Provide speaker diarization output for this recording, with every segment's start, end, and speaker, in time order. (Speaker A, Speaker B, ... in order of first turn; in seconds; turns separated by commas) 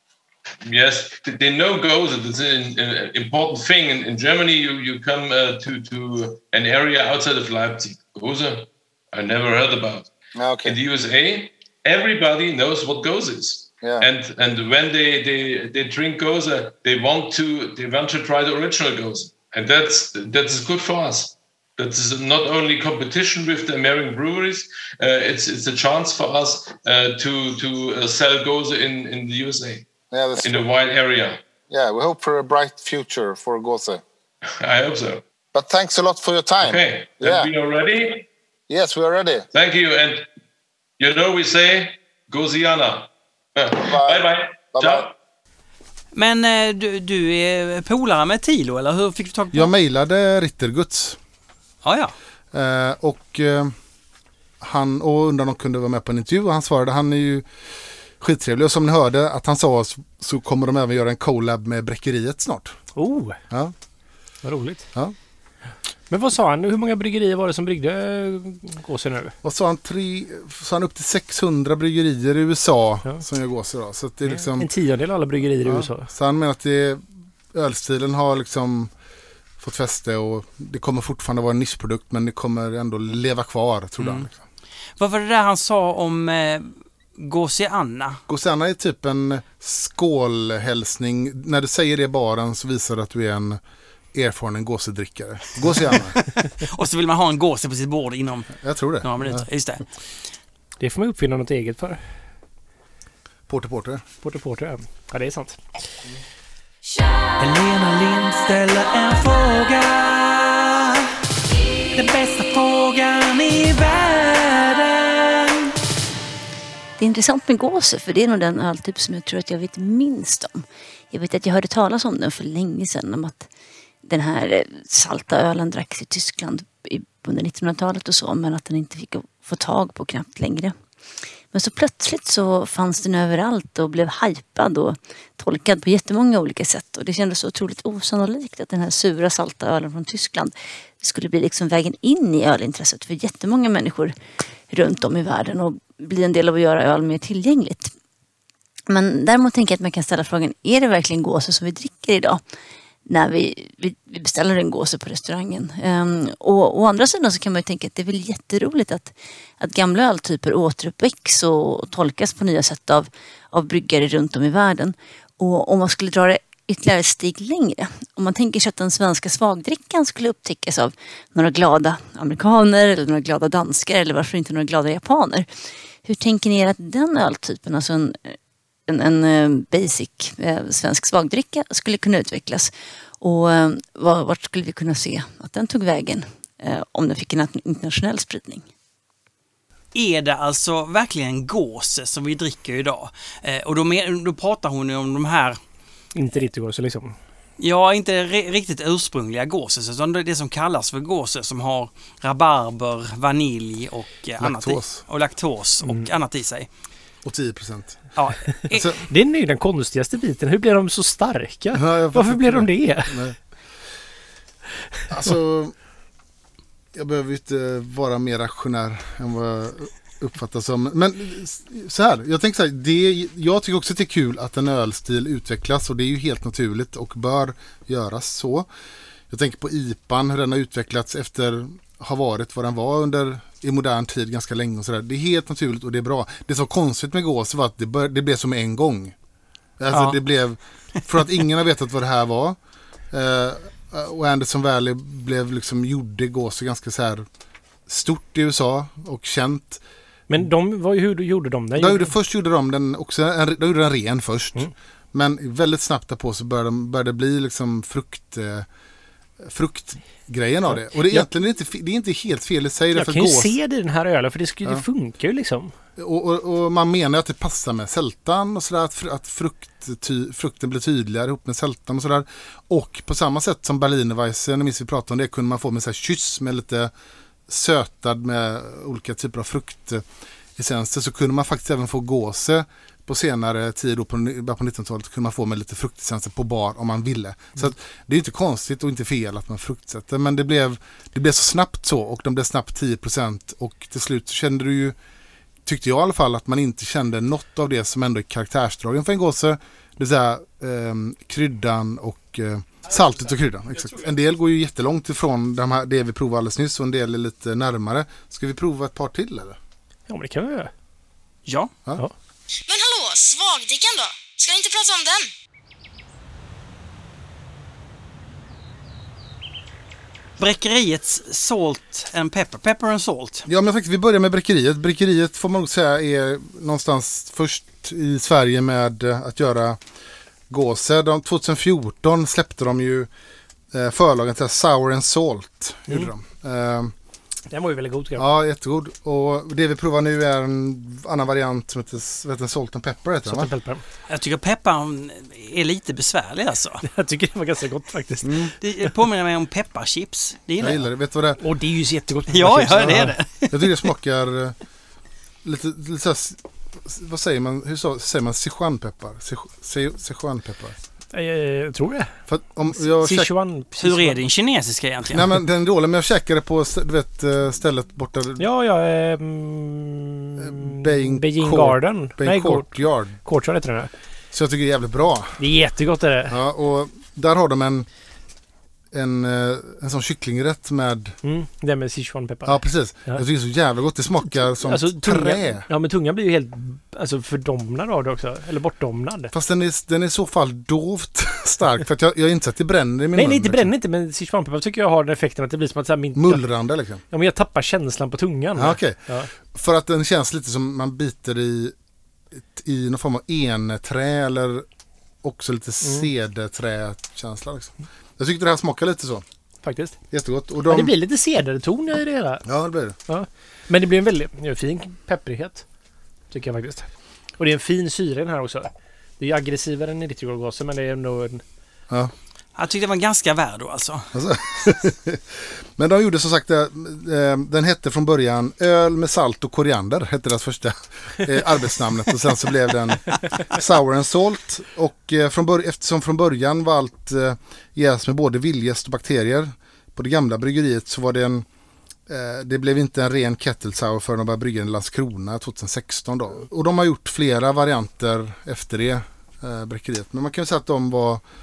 Speaker A: 0.7-10.1, Speaker B: 10.4-10.8, Speaker A: 10.6-29.9, Speaker B: 13.8-14.1, Speaker B: 30.1-30.7, Speaker A: 30.4-31.4, Speaker B: 31.7-34.0, Speaker A: 34.6-35.2, Speaker B: 35.5-37.5, Speaker A: 36.6-38.3, Speaker B: 38.7-39.5, Speaker A: 39.5-40.3, Speaker A: 41.0-45.1, Speaker B: 43.8-45.1, Speaker C: 46.1-49.7, Speaker D: 49.5-51.2, Speaker C: 51.8-52.1, Speaker D: 52.5-53.7, Speaker D: 54.6-57.5, Speaker D: 58.2-62.8, Speaker E: 63.0-63.4, Speaker E: 64.4-64.9, Speaker E: 66.1-69.3, Speaker D: 69.4-74.7, Speaker E: 74.3-76.1, Speaker D: 75.6-77.0, Speaker D: 77.5-78.9, Speaker D: 79.6-84.4, Speaker C: 84.0-84.3, Speaker C: 85.0-88.2, Speaker D: 88.3-93.6, Speaker D: 94.1-96.2, Speaker C: 95.7-99.8, Speaker D: 98.6-99.5, Speaker E: 100.8-102.0, Speaker D: 103.5-104.0, Speaker E: 104.2-105.6, Speaker C: 107.4-111.1, Speaker C: 111.9-115.7, Speaker F: 117.0-123.5, Speaker F: 124.0-130.8, Speaker F: 131.5-144.1, Speaker F: 144.7-147.9, Speaker F: 148.9-152.4, Speaker F: 153.1-175.5, Speaker F: 176.0-178.3, Speaker F: 178.9-188.7, Speaker C: 189.9-195.6, Speaker E: 196.1-197.2, Speaker C: 197.6-206.7, Speaker D: 204.4-205.0, Speaker D: 207.2-208.1, Speaker C: 208.2-208.9, Speaker E: 208.6-213.2, Speaker D: 208.7-209.0, Speaker D: 211.7-213.4, Speaker D: 215.1-215.7, Speaker D: 216.9-228.7, Speaker D: 229.3-239.1, Speaker D: 239.8-242.6, Speaker C: 239.9-240.2, Speaker D: 243.1-247.3, Speaker D: 247.9-249.8, Speaker E: 250.3-252.1, Speaker D: 251.8-258.7, Speaker D: 259.4-263.6, Speaker E: 260.7-261.3, Speaker E: 262.9-265.7, Speaker D: 266.0-276.9, Speaker D: 277.5-280.1, Speaker D: 280.6-294.9, Speaker D: 295.7-309.6, Speaker E: 310.1-310.7, Speaker C: 311.4-311.7, Speaker G: 312.7-315.3, Speaker C: 320.4-323.4, Speaker D: 323.5-329.8, Speaker D: 330.5-333.1, Speaker D: 333.7-336.9, Speaker E: 337.5-338.3, Speaker D: 338.2-343.5, Speaker E: 343.2-343.8, Speaker C: 344.1-346.9, Speaker E: 346.9-348.9, Speaker D: 348.2-348.5, Speaker C: 348.6-350.8, Speaker D: 350.6-351.4, Speaker E: 351.4-353.2, Speaker C: 352.3-353.6, Speaker D: 353.0-354.6, Speaker D: 355.4-360.8, Speaker E: 361.1-362.2, Speaker D: 362.3-363.3, Speaker E: 362.7-364.2, Speaker C: 363.8-365.3, Speaker D: 365.1-368.4, Speaker E: 368.4-373.9, Speaker D: 370.4-373.2, Speaker D: 374.3-375.4, Speaker E: 375.4-376.4, Speaker D: 376.3-377.9, Speaker D: 378.9-381.1, Speaker E: 381.2-383.2, Speaker D: 382.5-385.7, Speaker E: 384.5-389.3, Speaker D: 389.3-393.7, Speaker E: 393.1-396.5, Speaker D: 396.2-397.0, Speaker E: 397.1-399.3, Speaker D: 398.6-401.7, Speaker D: 402.5-404.7, Speaker D: 405.2-409.2, Speaker E: 405.8-406.1, Speaker E: 409.6-410.0, Speaker D: 410.1-410.9, Speaker E: 410.6-412.5, Speaker D: 412.5-412.9, Speaker E: 413.1-415.6, Speaker E: 416.3-421.4, Speaker C: 422.6-424.1, Speaker D: 424.1-441.5, Speaker D: 442.1-451.2